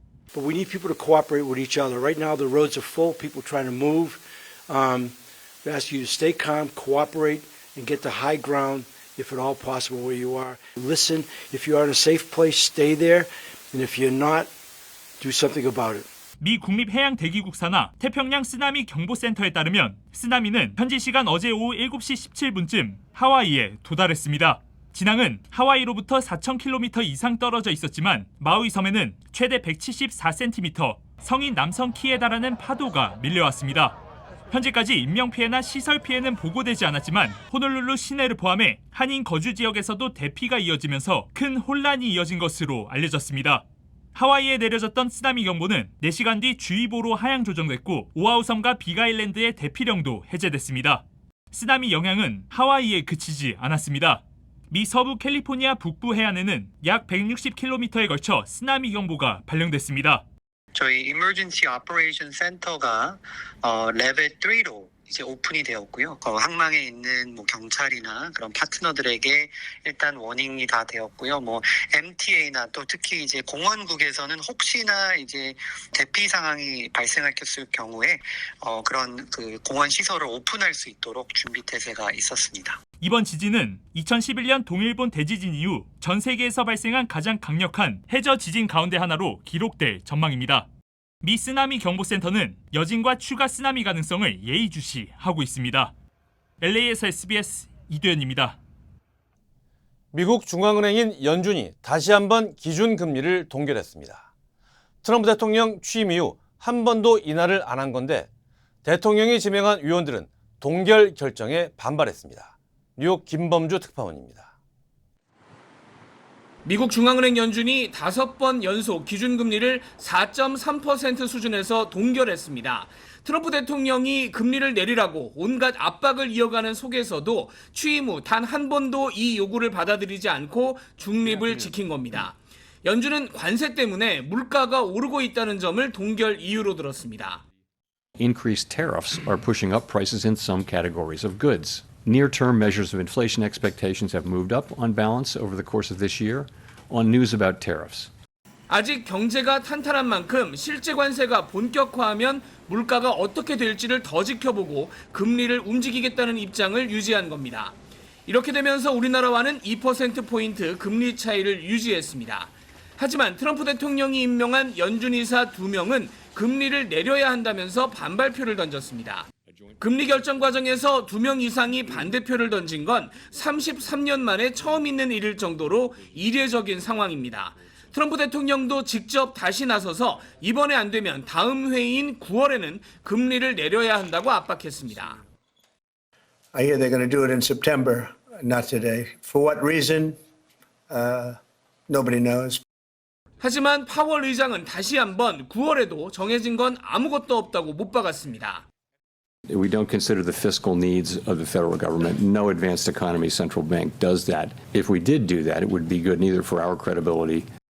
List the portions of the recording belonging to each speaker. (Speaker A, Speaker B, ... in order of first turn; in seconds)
Speaker A: 0.3-14.5, 15.2-16.1
Speaker B: 16.4-34.0, 34.5-43.6, 44.1-60.2, 83.0-90.7, 91.2-95.9, 96.6-98.6
Speaker C: 60.7-82.8
Speaker D: 100.1-104.3, 105.0-108.3, 108.8-114.5
Speaker E: 116.7-137.4, 148.7-157.8, 158.3-185.2, 193.4-198.7
Speaker F: 138.2-148.1, 199.5-207.5
Speaker G: 186.5-190.2, 190.9-192.6